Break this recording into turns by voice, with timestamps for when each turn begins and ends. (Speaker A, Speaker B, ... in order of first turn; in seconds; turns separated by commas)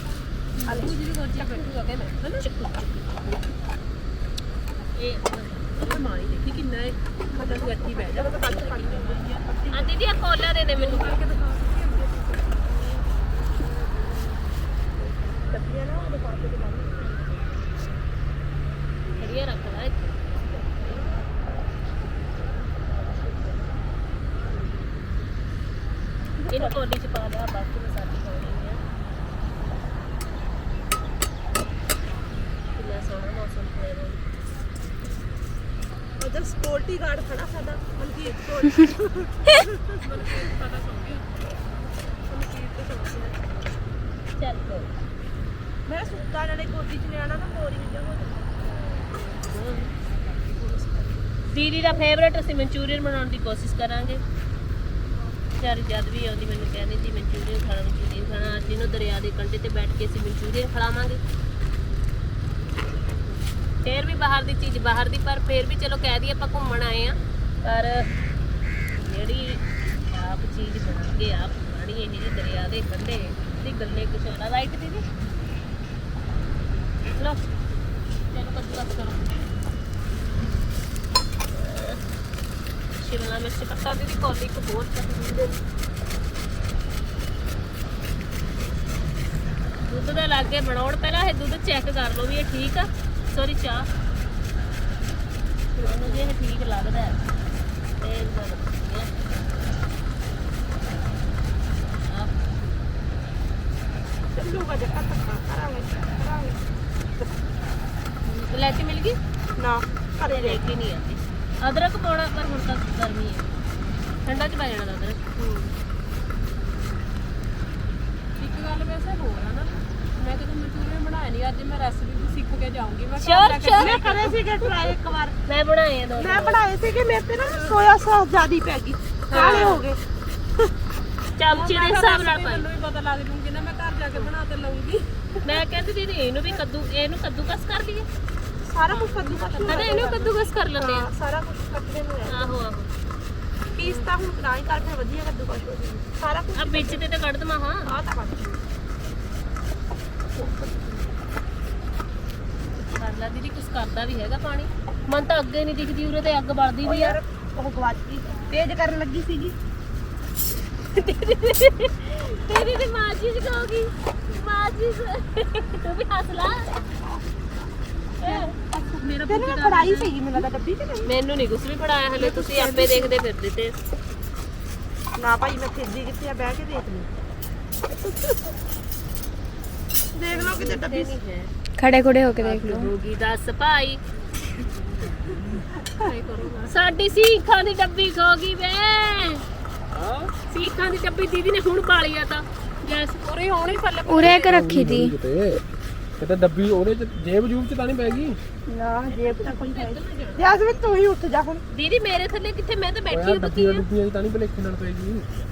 Speaker A: 0.6-2.5, Speaker B: 0.8-1.6, Speaker B: 2.4-3.4, Speaker B: 4.9-6.7, Speaker A: 5.9-9.2, Speaker C: 7.3-9.9, Speaker B: 8.3-9.1, Speaker B: 9.7-11.2, Speaker A: 10.7-12.1, Speaker C: 12.2-13.0, Speaker C: 15.5-17.2, Speaker B: 19.1-20.1, Speaker B: 26.5-28.8, Speaker B: 32.7-34.2, Speaker C: 36.2-40.5, Speaker B: 40.0-41.2, Speaker C: 42.2-43.5, Speaker B: 44.4-44.9, Speaker C: 45.9-48.8, Speaker B: 49.4-49.9, Speaker C: 50.2-51.3, Speaker B: 51.5-54.2, Speaker B: 55.6-61.2, Speaker B: 63.8-68.1, Speaker B: 69.0-75.0, Speaker B: 77.1-77.4, Speaker B: 78.3-79.4, Speaker B: 81.5-82.0, Speaker B: 83.0-85.6, Speaker B: 89.8-93.9, Speaker C: 95.8-96.3, Speaker B: 95.8-97.2, Speaker B: 98.0-99.1, Speaker B: 102.1-102.3, Speaker C: 104.3-106.6, Speaker B: 108.2-109.2, Speaker C: 109.6-110.6, Speaker B: 110.2-113.5, Speaker B: 114.2-115.2, Speaker A: 118.4-124.9, Speaker B: 123.2-124.0, Speaker C: 123.7-125.4, Speaker B: 125.5-126.6, Speaker C: 126.2-130.0, Speaker B: 129.3-129.8, Speaker A: 129.3-129.7, Speaker B: 131.3-132.7, Speaker A: 131.5-135.1, Speaker B: 135.4-138.1, Speaker C: 138.6-142.5, Speaker A: 138.9-140.3, Speaker B: 139.6-141.1, Speaker B: 142.3-142.9, Speaker C: 143.7-147.0, Speaker B: 146.5-147.9, Speaker C: 147.8-148.6, Speaker C: 150.3-151.1, Speaker B: 152.8-157.2, Speaker C: 156.8-159.5, Speaker B: 160.9-166.8, Speaker B: 168.2-170.1, Speaker C: 168.2-171.1, Speaker B: 171.0-173.8, Speaker C: 172.1-173.1, Speaker C: 175.2-177.1, Speaker C: 180.1-181.1, Speaker B: 180.3-181.5, Speaker D: 181.8-182.9, Speaker B: 182.4-184.0, Speaker A: 185.9-186.7, Speaker B: 186.7-189.4, Speaker E: 189.9-190.3, Speaker B: 190.5-193.1, Speaker A: 192.9-194.3, Speaker D: 194.1-195.1, Speaker E: 194.2-195.6, Speaker E: 196.2-198.4, Speaker C: 198.7-201.6, Speaker A: 199.1-200.6, Speaker B: 201.7-203.8, Speaker E: 203.1-205.2